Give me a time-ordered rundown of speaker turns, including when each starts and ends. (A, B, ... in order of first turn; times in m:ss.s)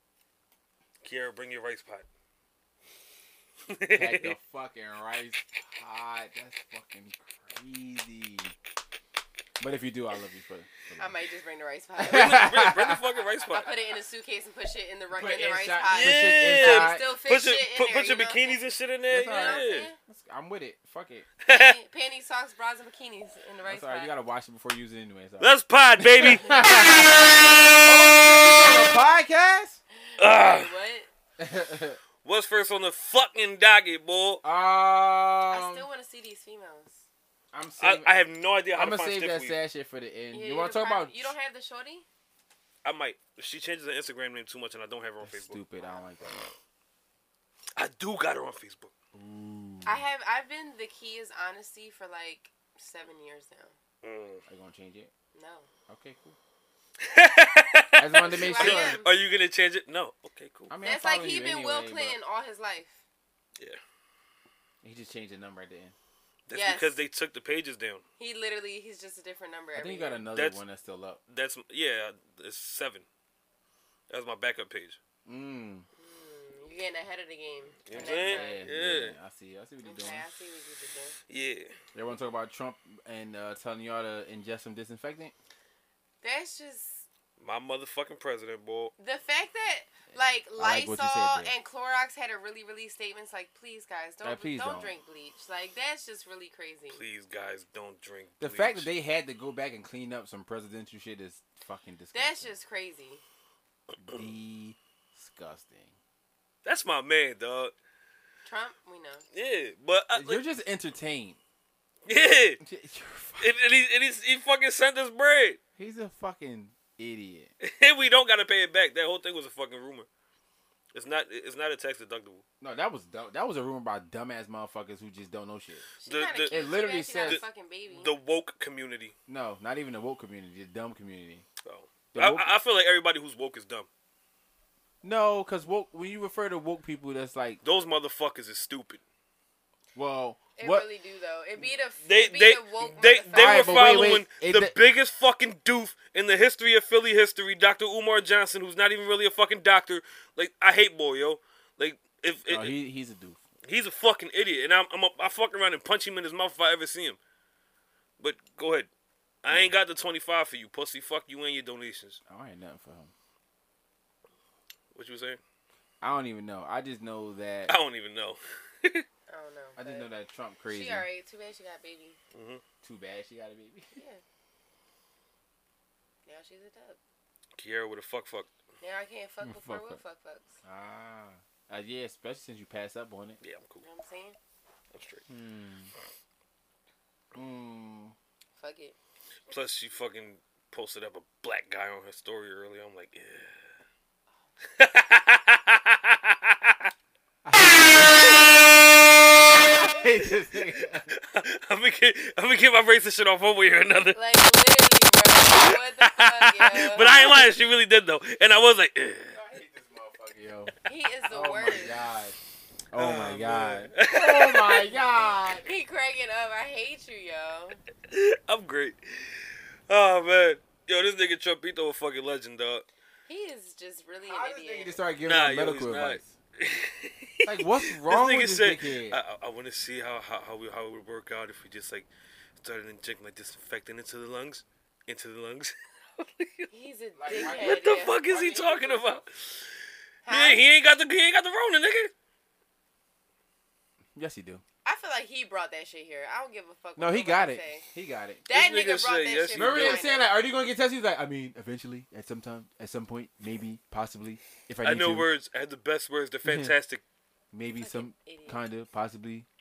0:01.0-0:02.0 A
0:03.7-0:04.3 A
0:03.9-0:08.5 B
0:09.6-0:11.2 B
0:11.0-0:12.5 C
0:12.0-0:13.0 B
0:12.1-0:13.7 A
0:13.5-0:18.6 C
0:15.1-0:17.0 B
0:15.9-0:19.9 A
0:19.1-0:21.3 B
0:19.2-0:20.0 C
0:21.4-0:21.8 A
0:21.5-0:24.1 C
0:23.6-0:29.8 B
0:25.4-0:26.5 A
0:26.4-0:27.1 C
0:30.0-0:31.1 C
0:30.2-0:30.7 A
0:31.4-0:32.0 B
0:32.2-0:34.4 A
0:34.4-0:35.9 B
0:35.5-0:37.0 C
0:37.5-0:38.2 B
0:37.8-0:39.6 A
0:38.7-0:41.3 B
0:40.3-0:42.0 C
0:42.8-0:45.6 A
0:45.2-0:46.5 B
0:47.8-0:48.9 A
0:49.1-0:50.0 B
0:49.8-0:53.7 C
0:54.0-0:54.4 A
0:54.5-0:55.1 B
0:55.3-0:55.7 C
0:55.9-0:56.4 B
0:57.0-1:00.7 A
0:58.0-0:59.0 B
0:58.2-0:59.1 C
1:00.7-1:02.2 B
1:00.8-1:03.0 C
1:04.8-1:05.9 B
1:06.5-1:08.0 A
1:06.5-1:07.0 C
1:08.2-1:10.2 C
1:09.7-1:11.2 B
1:10.3-1:10.6 A
1:11.3-1:13.0 A
1:14.1-1:15.0 A
1:15.2-1:15.9 B
1:16.0-1:18.6 C
1:17.8-1:19.1 A
1:17.9-1:20.2 B
1:19.8-1:21.2 C
1:21.3-1:21.7 A
1:21.9-1:25.3 B
1:26.2-1:27.0 C
1:27.4-1:28.9 A
1:29.0-1:37.0 C
1:30.1-1:31.5 B
1:34.2-1:35.0 B
1:36.9-1:38.9 A
1:38.4-1:42.6 B
1:42.1-1:43.2 C
1:44.0-1:45.9 B
1:46.6-1:47.7 A
1:48.4-1:49.2 C
1:49.3-1:50.4 A
1:50.1-1:51.4 B
1:52.0-1:52.6 A
1:52.6-1:53.5 B
1:53.4-1:55.6 A
1:55.8-1:57.5 B
1:57.6-2:00.1 A
2:00.9-2:02.4 A
2:02.6-2:05.9 B
2:06.0-2:08.1 C
2:06.0-2:09.1 A
2:06.4-2:07.4 B
2:09.3-2:11.4 B
2:11.6-2:13.9 A
2:12.1-2:12.5 B
2:15.0-2:17.6 B
2:17.6-2:19.0 A
2:19.9-2:20.9 B
2:20.6-2:24.2 C
2:22.0-2:32.8 A
2:23.3-2:24.8 B
2:32.5-2:33.4 B
2:33.6-2:37.2 A
2:38.2-2:38.9 A
2:39.4-2:42.2 A
2:42.3-2:43.1 B
2:44.9-2:45.4 A
2:46.0-2:47.7 B
2:47.7-2:49.0 A
2:49.3-2:50.1 C
2:49.8-2:51.1 B
2:50.7-2:52.2 C
2:52.3-2:52.6 A
2:52.8-2:54.0 B
2:54.0-2:54.2 C
2:56.2-2:57.0 C
2:57.6-2:58.5 A
2:58.8-3:00.6 C
2:59.4-3:00.0 B
3:00.6-3:03.4 B
3:03.4-3:03.8 A
3:03.8-3:04.4 C
3:04.9-3:05.2 A
3:05.3-3:05.9 B
3:07.3-3:08.1 B
3:08.6-3:09.0 C
3:09.5-3:13.5 A
3:14.8-3:16.9 A
3:17.4-3:18.4 B
3:19.6-3:21.0 B
3:21.1-3:24.2 A
3:24.1-3:27.4 C
3:25.5-3:29.4 A
3:29.3-3:30.7 B
3:30.8-3:32.0 C
3:31.3-3:32.4 B
3:32.9-3:35.6 B
3:33.0-3:34.9 A
3:35.1-3:37.8 C
3:38.1-3:42.8 A
3:43.3-3:45.0 C
3:44.2-3:46.3 B
3:45.2-3:52.1 A
3:47.4-3:49.2 B
3:52.6-3:56.7 A
3:56.7-3:59.0 C
3:57.2-3:59.1 B
3:57.3-3:59.7 A
4:00.2-4:00.6 C
4:00.3-4:02.1 A
4:04.2-4:04.6 B
4:04.8-4:07.8 C
4:07.0-4:08.4 B
4:08.5-4:10.3 C
4:08.5-4:10.1 A
4:09.5-4:15.3 B
4:14.8-4:17.0 A
4:16.4-4:16.8 B
4:17.5-4:19.5 B
4:17.8-4:18.6 C